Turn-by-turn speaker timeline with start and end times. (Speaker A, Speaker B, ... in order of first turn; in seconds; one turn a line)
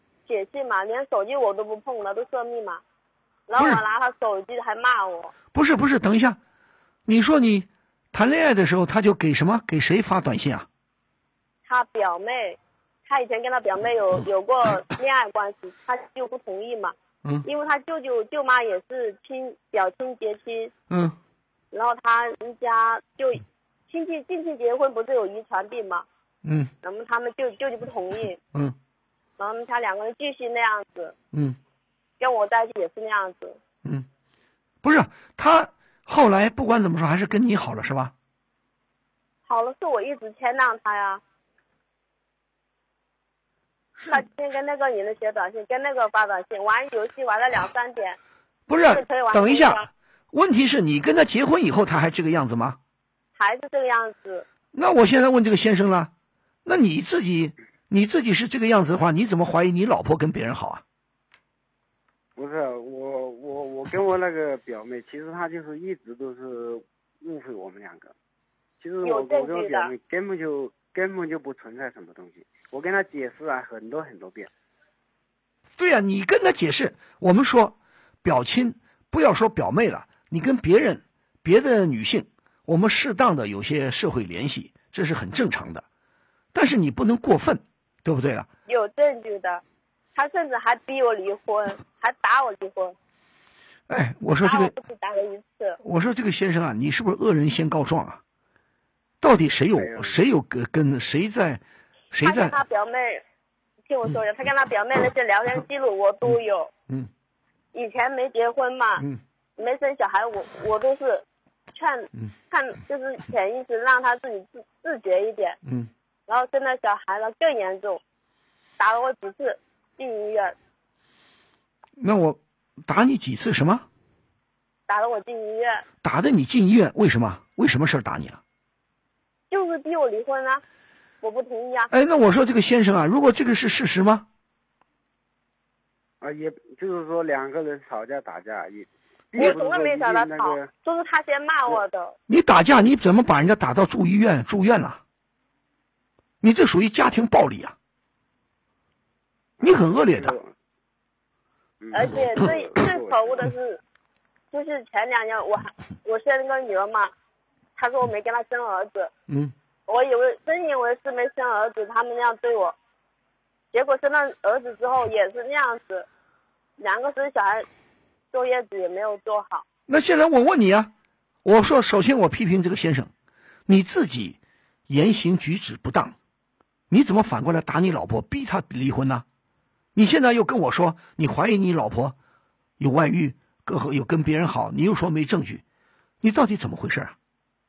Speaker A: 0.3-2.8
Speaker A: 3.5-5.3
Speaker B: 3.6-3.8
Speaker B: 5.5-6.4
Speaker B: 7.1-10.7
Speaker A: 11.7-20.7
Speaker B: 20.9-21.2
Speaker A: 21.7-26.1
Speaker B: 26.4-26.7
Speaker A: 26.8-28.4
Speaker A: 29.4-31.1
Speaker B: 31.3-31.6
Speaker A: 32.2-33.6
Speaker B: 34.8-38.1
Speaker A: 39.5-41.2
Speaker A: 44.0-48.2
Speaker B: 48.7-52.8
Speaker A: 48.8-49.9
Speaker A: 53.4-54.5
Speaker B: 54.7-56.1
Speaker B: 56.6-60.8
Speaker C: 62.4-68.1
Speaker C: 68.8-74.5
Speaker A: 69.0-69.9
Speaker B: 75.8-85.8
Speaker B: 86.5-88.5
Speaker A: 88.7-89.6
Speaker A: 90.2-93.0
Speaker B: 93.9-94.8
Speaker A: 94.4-95.8
Speaker B: 95.8-98.2
Speaker B: 99.2-102.6
Speaker C: 99.8-100.2
Speaker A: 102.2-103.2
Speaker A: 103.9-106.7
Speaker A: 107.7-109.1
Speaker A: 109.6-115.6
Speaker B: 115.7-115.9
Speaker A: 116.3-118.0
Speaker A: 118.8-120.5
Speaker B: 122.0-123.9
Speaker A: 124.9-125.8
Speaker B: 126.0-128.4
Speaker A: 129.5-130.6
Speaker A: 131.2-131.9
Speaker B: 131.9-134.3
Speaker C: 136.2-140.7
Speaker A: 139.3-142.2
Speaker B: 142.3-145.0
Speaker B: 146.4-147.8
Speaker C: 149.6-150.5
Speaker B: 149.6-150.4
Speaker C: 151.8-153.5
Speaker A: 151.9-153.8
Speaker A: 154.5-157.1
Speaker A: 157.8-159.1
Speaker B: 159.3-159.5
Speaker A: 159.9-162.8
Speaker A: 163.7-166.1
Speaker A: 166.8-167.7
Speaker A: 168.3-169.7
Speaker B: 169.9-170.9
Speaker B: 171.4-173.1
Speaker B: 173.7-174.4
Speaker B: 174.9-176.2
Speaker B: 176.9-179.2
Speaker B: 179.9-182.2
Speaker B: 182.8-185.6
Speaker B: 186.2-187.2